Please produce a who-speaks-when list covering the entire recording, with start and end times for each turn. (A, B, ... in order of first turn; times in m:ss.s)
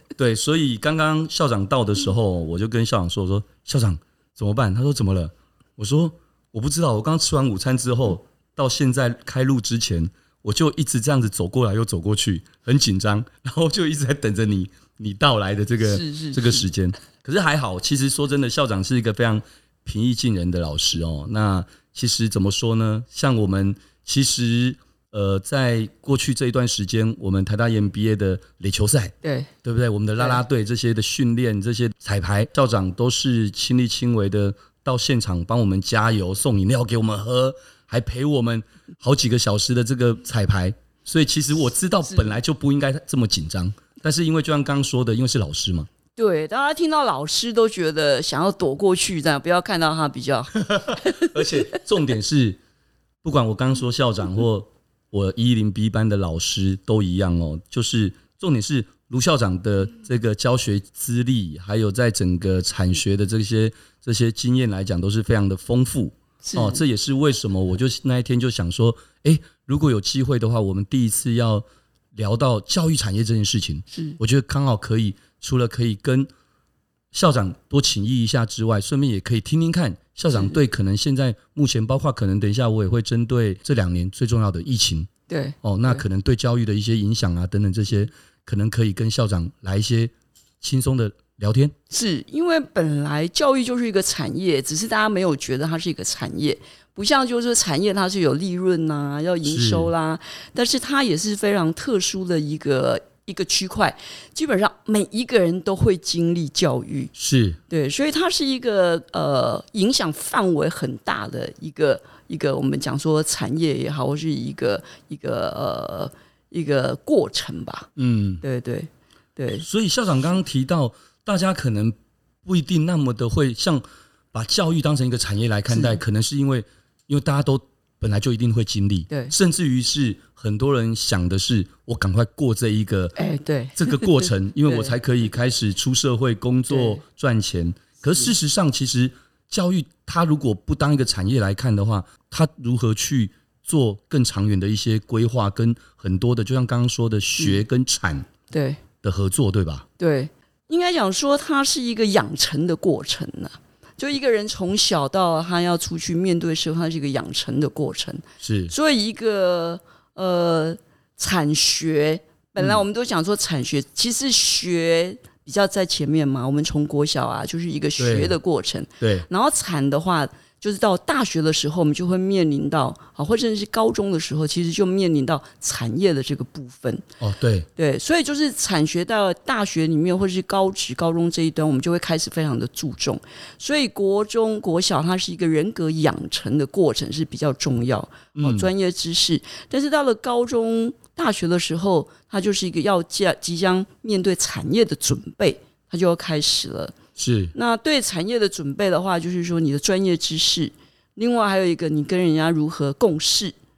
0:00.2-0:45.9 A
0:15.8-0:16.7 B
0:29.2-0:29.5 B
0:46.2-0:51.5 B
0:50.7-0:52.6 A
0:53.2-1:16.3 A
1:06.4-1:06.8 B
1:13.9-1:14.2 B
1:17.1-1:25.1 A
1:25.3-1:26.0 B
1:25.6-1:31.8 A
1:31.9-1:47.1 B
1:39.5-1:39.9 A
1:47.2-1:47.6 A
1:47.7-1:57.9 B
1:58.0-1:58.4 A
1:58.4-1:59.7 B
1:59.6-2:13.2 A
2:05.7-2:06.0 B
2:13.2-2:14.9 B
2:13.8-2:28.3 A
2:16.7-2:17.0 B
2:28.5-2:28.8 B
2:29.0-2:29.9 A
2:30.0-2:57.0 B
2:38.4-2:38.7 A
2:48.0-2:48.4 A
2:49.0-2:49.3 A
2:57.2-2:57.7 A
2:57.8-3:16.9 B
3:08.4-3:08.7 A
3:17.2-3:17.5 A
3:17.5-3:23.6 B